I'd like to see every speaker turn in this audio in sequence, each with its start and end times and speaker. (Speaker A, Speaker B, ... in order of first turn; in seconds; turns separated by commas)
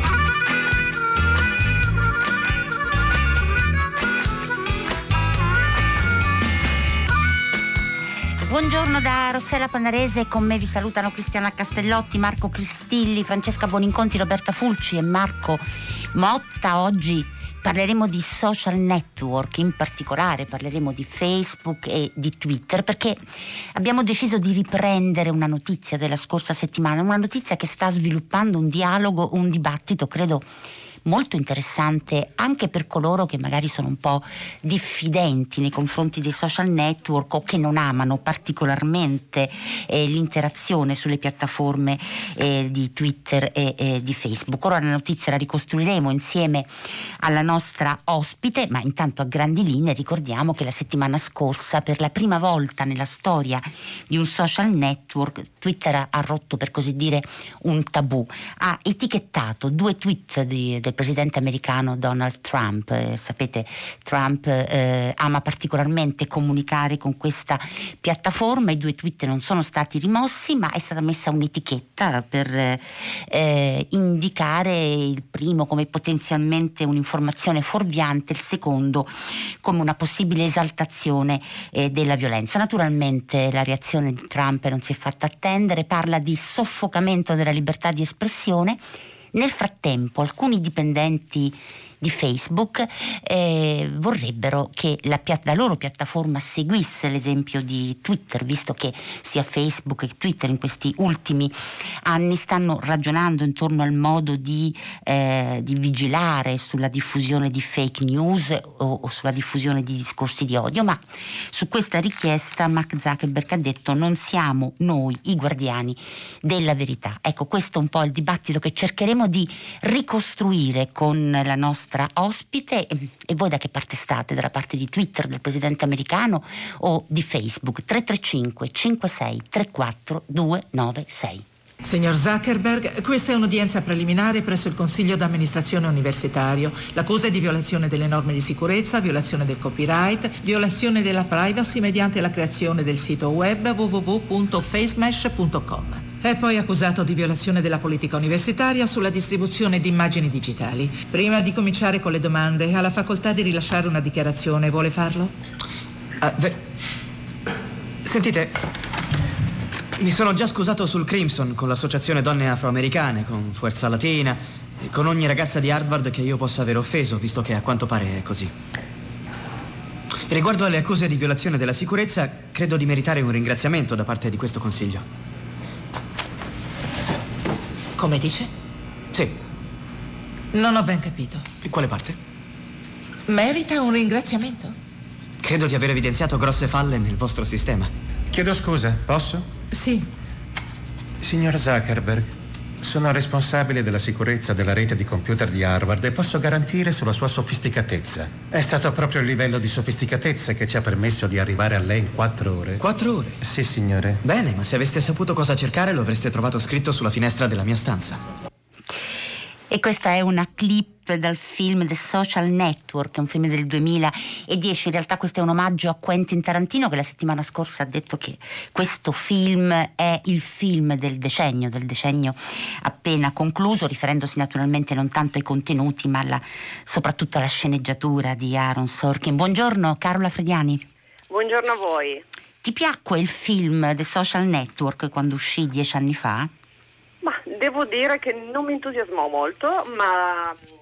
Speaker A: 8.4-23.2, Speaker A: 23.7-30.4, Speaker A: 31.0-88.8, Speaker A: 89.3-131.4, Speaker B: 131.8-155.3, Speaker C: 156.2-156.6, Speaker C: 158.0-158.6, Speaker C: 160.0-168.5, Speaker C: 170.3-175.0, Speaker B: 177.9-178.5, Speaker B: 180.5-181.5, Speaker C: 181.6-182.2, Speaker B: 183.3-184.8, Speaker C: 185.4-187.9, Speaker D: 188.3-189.5, Speaker B: 189.7-190.1, Speaker D: 191.2-192.3, Speaker D: 192.8-202.8, Speaker C: 202.8-203.4, Speaker D: 203.4-204.2, Speaker C: 204.2-208.2, Speaker A: 209.7-230.8, Speaker E: 231.3-232.2, Speaker A: 232.6-236.5, Speaker E: 237.2-240.6